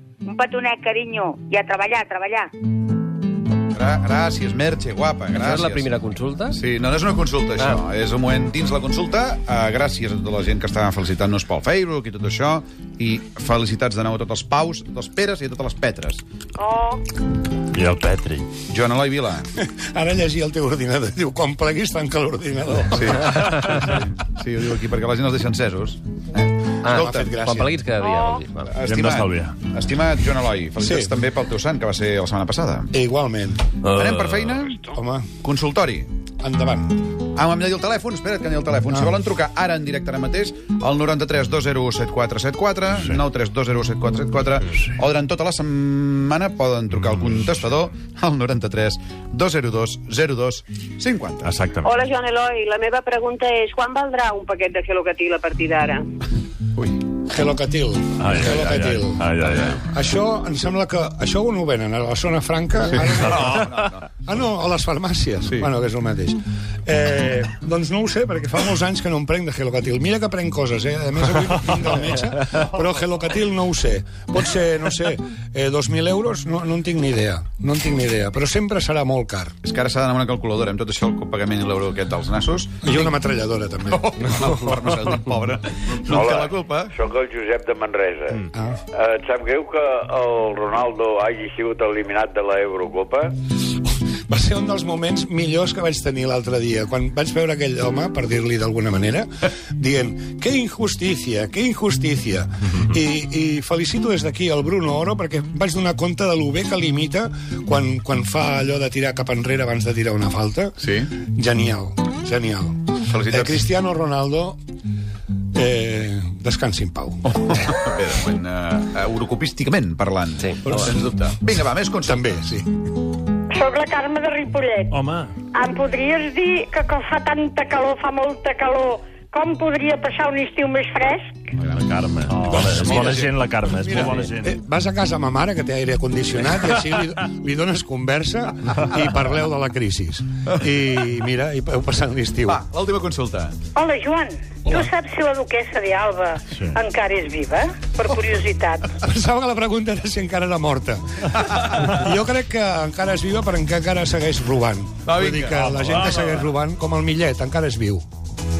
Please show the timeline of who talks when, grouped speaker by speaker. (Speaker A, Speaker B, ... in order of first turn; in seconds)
Speaker A: 0.2-2.5
Speaker B: 3.7-5.9, 6.5-16.2, 18.6-19.5, 23.0-27.4, 28.6-32.9, 33.9-36.1, 37.2-51.5, 63.3-64.0, 79.6-83.1, 83.9-86.9, 110.8-111.2, 113.1-113.6, 117.3-122.3, 132.5-133.3, 142.5-143.6, 151.4-151.9, 155.1-155.6
Speaker C: 5.3-6.6, 26.8-28.7, 33.9-34.2, 120.4-120.7
Speaker D: 16.6-17.0, 123.5-125.0, 125.5-131.5, 143.8-149.0
Speaker E: 17.7-18.6, 28.9-29.6, 51.4-51.9, 58.2-59.8, 124.9-125.3, 131.6-134.4, 155.7-156.4
Speaker F: 19.6-23.3, 26.9-27.8, 30.8-31.1, 32.9-33.7, 34.9-35.3, 36.4-37.1, 57.3-63.7, 64.2-79.5, 82.8-84.2, 94.3-114.6, 115.5-117.2, 122.0-122.7, 133.8-142.6, 149.0-158.0
Speaker G: 51.8-56.0
Speaker H: 86.1-93.3